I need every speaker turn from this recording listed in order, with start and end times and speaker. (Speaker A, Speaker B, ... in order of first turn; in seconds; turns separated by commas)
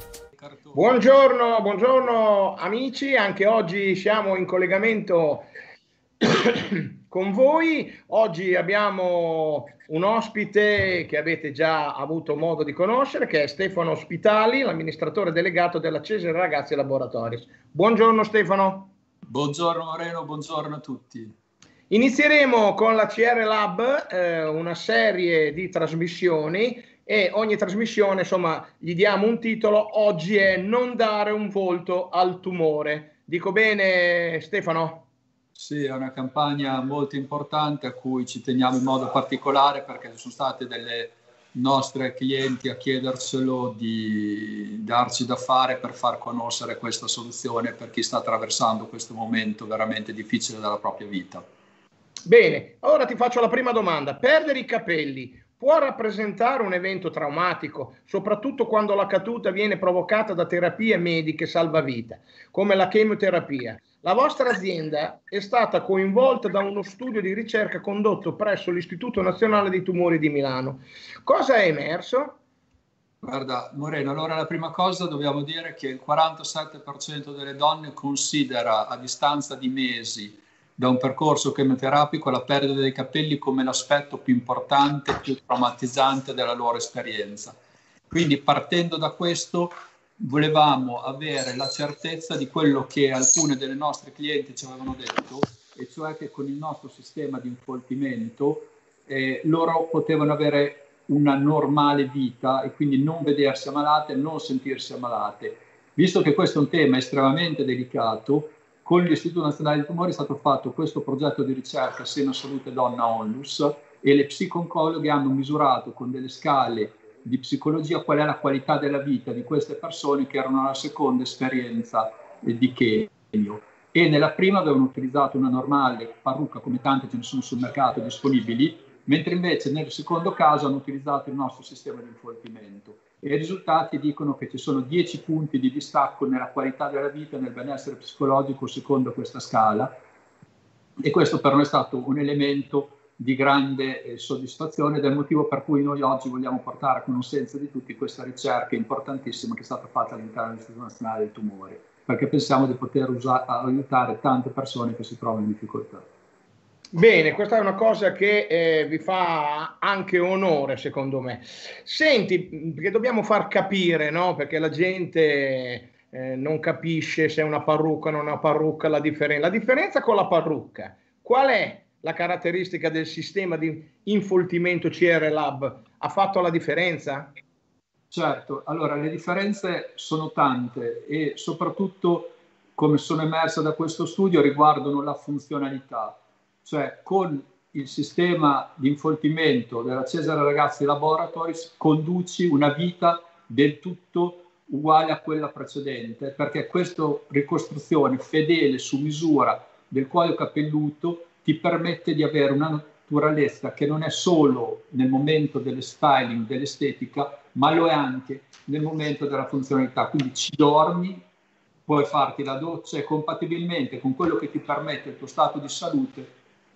Speaker A: 0.3-1.0, Speaker B: 0.7-5.5, Speaker B: 6.2-18.9, Speaker A: 19.2-21.3, Speaker B: 21.9-35.0, Speaker A: 35.5-51.4, Speaker B: 52.2-72.4, Speaker A: 73.2-87.6, Speaker A: 88.1-139.9, Speaker A: 141.0-156.1, Speaker B: 156.9-177.3, Speaker A: 178.1-211.2, Speaker A: 211.8-216.4